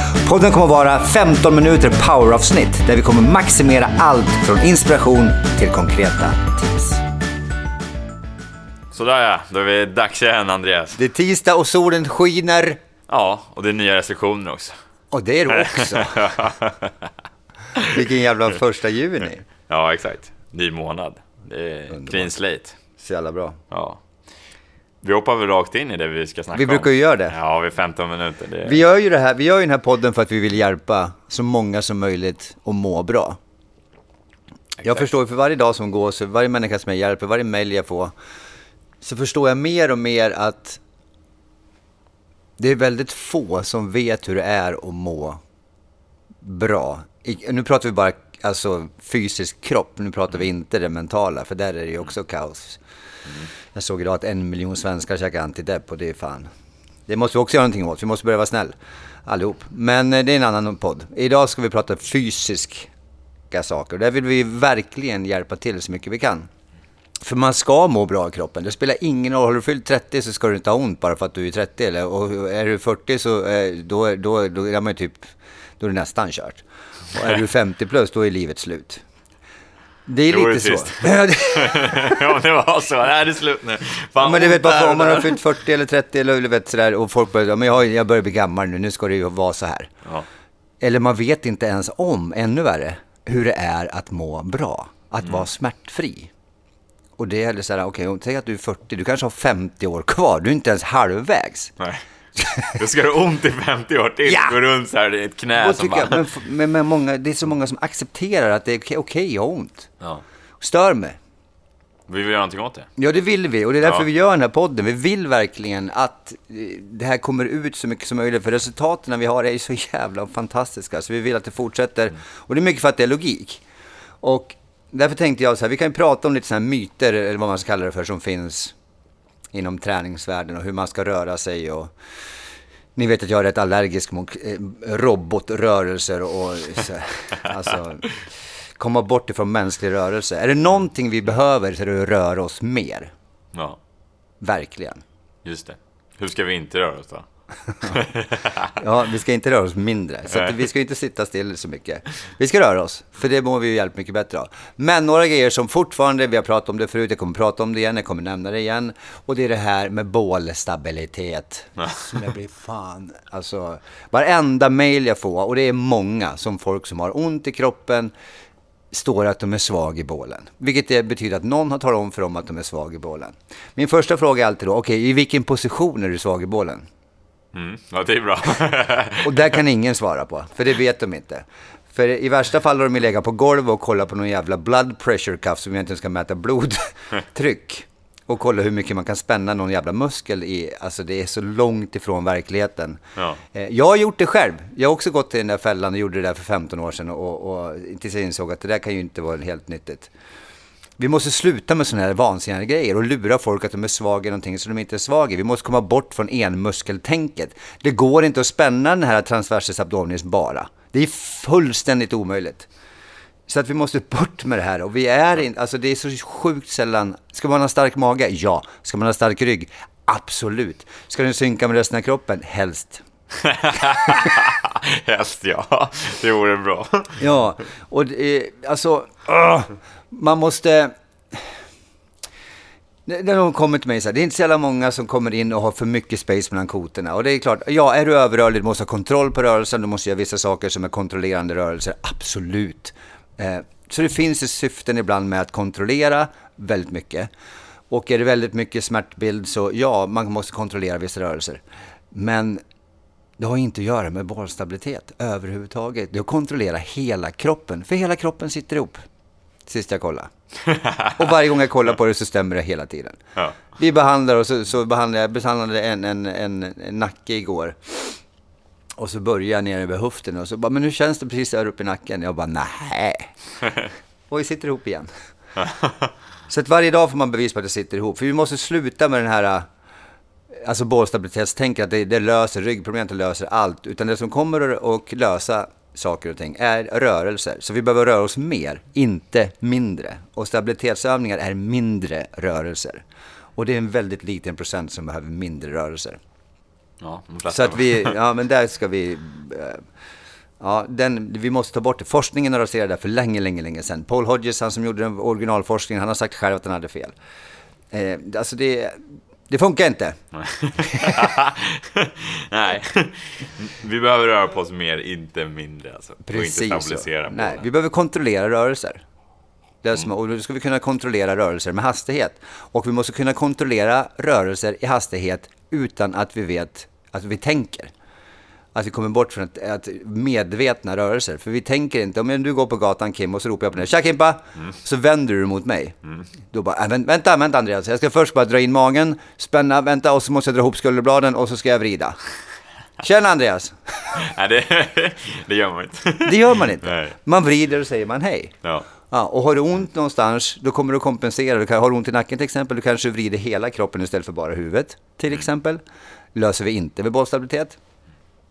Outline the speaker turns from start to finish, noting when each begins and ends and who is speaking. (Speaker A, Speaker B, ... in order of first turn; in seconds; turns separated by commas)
Speaker A: 0.2-7.0, Speaker B: 8.9-11.0, Speaker A: 10.9-12.8, Speaker B: 13.1-14.8, Speaker A: 15.1-16.2, Speaker B: 15.5-17.1, Speaker A: 17.8-19.5, Speaker B: 19.7-22.8, Speaker A: 21.9-22.3, Speaker A: 23.0-23.6, Speaker B: 23.7-24.0, Speaker B: 25.0-28.8, Speaker A: 26.5-27.4, Speaker A: 28.6-33.4, Speaker A: 34.8-38.1, Speaker A: 39.0-40.8, Speaker A: 42.6-45.4, Speaker A: 46.4-52.8, Speaker A: 53.7-56.5, Speaker A: 57.1-58.8, Speaker A: 59.2-62.9, Speaker A: 63.5-66.5, Speaker A: 67.2-79.0, Speaker A: 80.1-82.2, Speaker B: 80.3-85.4, Speaker A: 84.2-89.9, Speaker A: 90.8-96.3, Speaker A: 97.2-101.7, Speaker A: 102.4-102.7, Speaker B: 102.8-106.2, Speaker A: 104.2-104.5, Speaker A: 105.6-109.9, Speaker A: 110.6-111.2, Speaker B: 112.1-112.9, Speaker A: 113.0-123.6, Speaker A: 124.2-128.7, Speaker A: 129.5-131.9, Speaker A: 132.9-138.1, Speaker A: 138.8-143.1, Speaker B: 143.5-143.8, Speaker A: 144.4-145.0, Speaker B: 145.4-147.2, Speaker B: 147.8-148.7, Speaker A: 148.7-168.1, Speaker A: 168.9-176.8, Speaker B: 177.5-179.5, Speaker A: 179.2-193.0, Speaker B: 193.2-193.4, Speaker A: 193.5-200.1, Speaker A: 201.0-212.7, Speaker A: 213.5-223.0, Speaker B: 223.4-227.2, Speaker A: 227.2-231.4, Speaker A: 233.1-247.3, Speaker A: 247.9-252.6, Speaker A: 253.4-259.0, Speaker A: 259.6-260.3, Speaker B: 260.7-261.1, Speaker A: 261.1-268.2, Speaker A: 269.0-273.3, Speaker A: 274.3-275.1, Speaker A: 276.5-279.6, Speaker A: 280.6-293.0, Speaker A: 293.6-296.2, Speaker B: 297.0-298.1, Speaker A: 297.5-299.8, Speaker A: 300.6-307.1, Speaker A: 307.9-310.2, Speaker B: 310.4-317.6, Speaker A: 310.8-311.2, Speaker A: 316.2-319.0, Speaker A: 319.8-327.9, Speaker A: 328.8-335.9, Speaker A: 336.5-342.2, Speaker A: 343.0-344.1, Speaker B: 344.1-347.1, Speaker A: 346.2-348.6, Speaker A: 349.1-355.8, Speaker A: 356.3-357.8